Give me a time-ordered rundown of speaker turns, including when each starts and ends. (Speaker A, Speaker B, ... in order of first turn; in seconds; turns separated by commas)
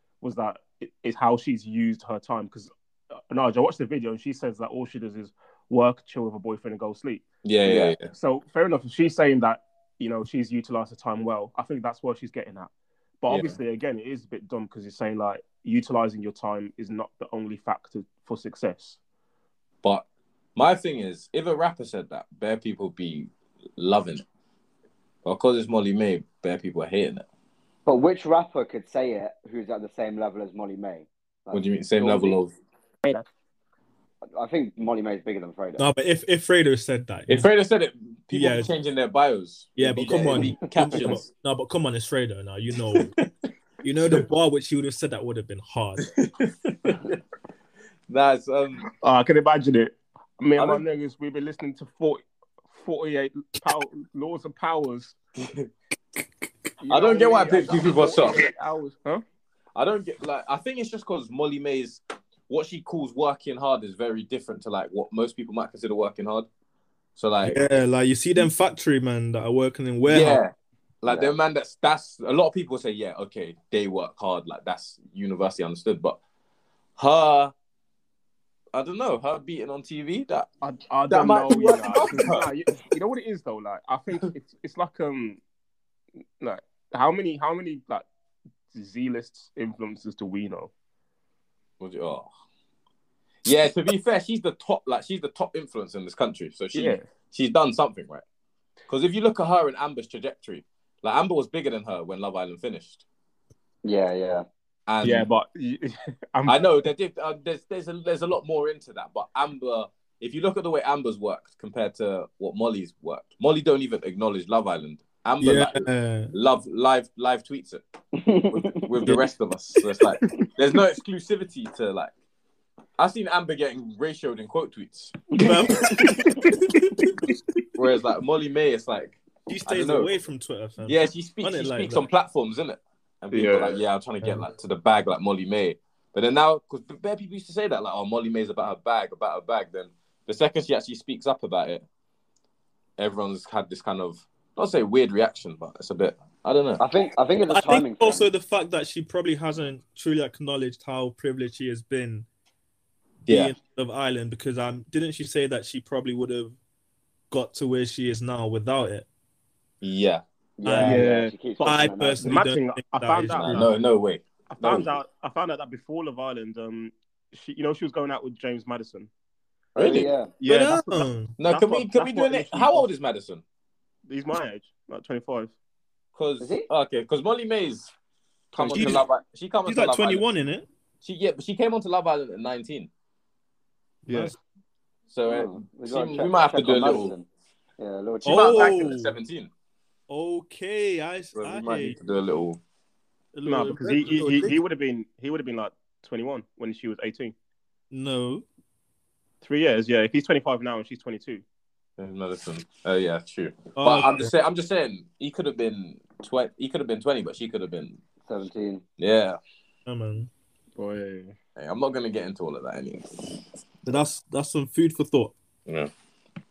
Speaker A: 0.2-12.7, Speaker B: 7.4-8.1, Speaker A: 13.2-19.0, Speaker B: 13.3-13.6, Speaker B: 19.8-24.2, Speaker B: 25.2-27.2, Speaker C: 27.9-32.4, Speaker B: 31.5-32.5, Speaker C: 34.3-35.8, Speaker D: 35.8-37.5, Speaker B: 37.3-41.2, Speaker D: 38.3-38.7, Speaker D: 39.8-43.1, Speaker B: 42.9-43.3, Speaker D: 43.8-46.0, Speaker B: 46.0-47.2, Speaker B: 48.1-48.8, Speaker A: 49.0-55.2, Speaker B: 50.5-50.8, Speaker A: 56.8-59.2, Speaker B: 56.9-58.4, Speaker B: 59.7-66.5, Speaker B: 67.2-67.6, Speaker D: 67.4-70.4, Speaker B: 70.0-76.2, Speaker C: 71.0-71.3, Speaker B: 77.0-77.5, Speaker B: 78.7-80.5, Speaker A: 80.6-85.4, Speaker B: 81.1-82.5, Speaker A: 86.4-88.0, Speaker A: 88.7-90.7, Speaker B: 91.8-92.3, Speaker B: 93.4-98.2, Speaker A: 96.7-97.0, Speaker B: 98.9-103.0, Speaker C: 103.8-104.4, Speaker B: 104.9-105.3, Speaker A: 105.0-106.7, Speaker B: 106.5-117.8, Speaker D: 115.4-116.3, Speaker C: 118.2-118.7, Speaker B: 118.5-122.1, Speaker B: 123.0-125.2, Speaker C: 125.4-126.1, Speaker D: 125.4-127.1, Speaker B: 127.8-130.1, Speaker D: 129.5-132.0, Speaker B: 130.8-141.8, Speaker A: 133.3-133.8, Speaker B: 143.0-146.8, Speaker C: 146.8-148.2, Speaker D: 147.4-152.3, Speaker B: 153.3-153.5, Speaker D: 153.3-156.6, Speaker D: 157.3-159.1, Speaker B: 159.8-160.2, Speaker C: 160.6-162.3, Speaker D: 160.6-161.1, Speaker A: 160.8-161.6, Speaker D: 161.6-163.7, Speaker A: 162.2-163.7, Speaker B: 163.2-164.9, Speaker A: 164.5-169.1, Speaker B: 169.7-170.1, Speaker C: 169.8-170.3, Speaker A: 170.4-172.9, Speaker D: 170.4-171.3, Speaker B: 171.4-173.4, Speaker A: 174.1-175.5, Speaker B: 176.1-177.9, Speaker C: 176.4-176.7, Speaker B: 178.5-180.2, Speaker D: 178.6-179.0, Speaker D: 179.7-180.7, Speaker B: 181.0-182.9, Speaker A: 184.1-184.3, Speaker D: 184.1-184.3, Speaker B: 185.1-187.1, Speaker C: 185.2-187.3, Speaker C: 187.8-188.8, Speaker B: 188.2-189.5, Speaker D: 188.2-189.1, Speaker D: 190.1-191.9, Speaker B: 191.3-192.6, Speaker D: 193.3-194.6, Speaker A: 193.4-197.3, Speaker D: 197.9-198.4, Speaker A: 199.4-201.4, Speaker B: 202.0-208.0, Speaker D: 203.8-204.3, Speaker C: 208.2-208.8, Speaker B: 209.0-209.4, Speaker D: 209.8-210.3, Speaker A: 210.8-211.3, Speaker B: 211.6-213.9, Speaker D: 213.8-215.3, Speaker B: 215.7-215.9